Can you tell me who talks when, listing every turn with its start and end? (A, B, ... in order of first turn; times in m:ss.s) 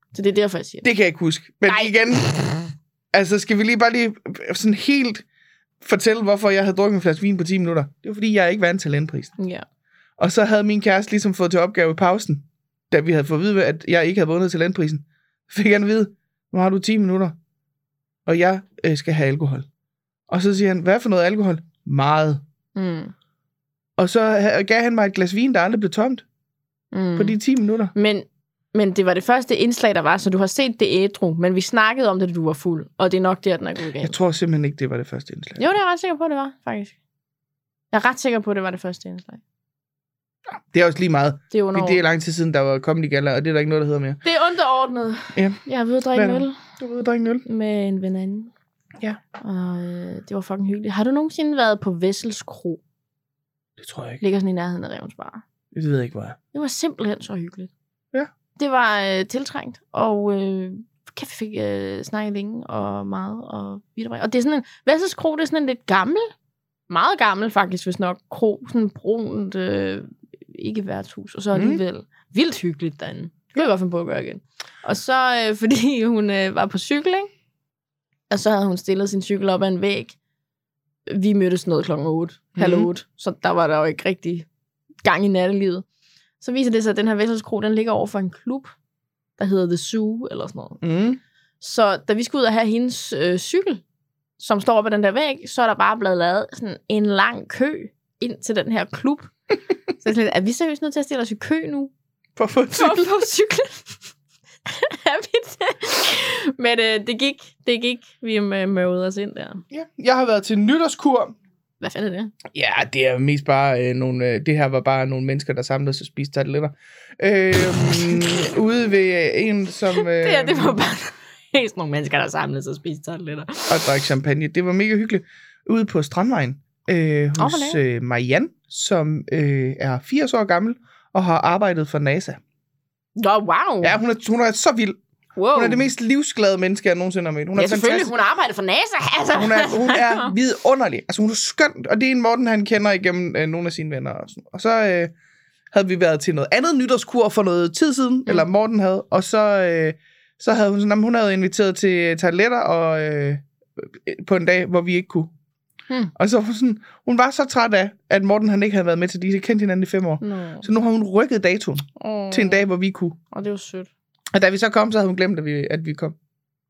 0:00.1-0:00.9 A
0:00.8-0:02.3 B
0:01.7-0:02.3 A
0:03.1-0:05.2 B
0:05.8-0:09.3 B
0:09.4-0:09.6 A
0:10.2-0:17.4 B
0:18.3-0:19.7 B
0:20.3-0:22.4 B
0:22.8-0:23.1 A
0:24.0-0:26.2 B
0:26.9-0:27.4 A
0:27.2-0:27.9 B
0:27.9-0:34.2 A
0:34.0-0:35.6 B
0:35.6-0:37.0 A
0:37.9-0:39.4 A
0:40.5-0:44.2 B
0:41.5-0:42.0 A
0:44.2-0:46.6 A
0:45.4-0:45.6 B
0:46.1-0:47.4 B
0:47.4-0:48.5 A
0:49.4-0:52.8 A
0:53.8-0:54.2 B
0:54.2-0:55.4 A
0:55.7-0:56.4 B
0:56.5-0:57.7 A
0:58.6-1:06.3 A
1:06.9-1:17.3 A
1:11.5-1:11.8 B
1:18.3-1:20.2 A
1:21.1-1:24.5 A
1:22.6-1:22.9 B
1:25.0-1:25.8 A
1:26.4-1:28.7 A
1:29.4-1:30.8 A
1:30.8-1:31.2 B
1:31.6-1:33.8 A
1:34.4-1:39.3 A
1:39.9-1:41.9 A
1:42.4-1:43.3 B
1:42.8-1:44.0 A
1:44.7-1:49.6 A
1:49.7-1:51.4 B
1:51.8-1:52.3 A
1:52.5-2:00.8 B
1:59.9-2:03.9 A
2:03.7-2:12.4 B
2:07.4-2:07.8 A
2:13.2-2:14.0 A
2:13.8-2:15.0 B
2:15.4-2:15.9 A
2:15.5-2:18.1 B
2:17.6-2:20.3 A
2:19.3-2:25.1 B
2:25.7-2:35.3 B
2:36.2-2:43.2 B
2:40.2-2:40.7 A
2:42.0-2:42.6 A
2:43.3-2:43.9 A
2:44.3-2:46.2 B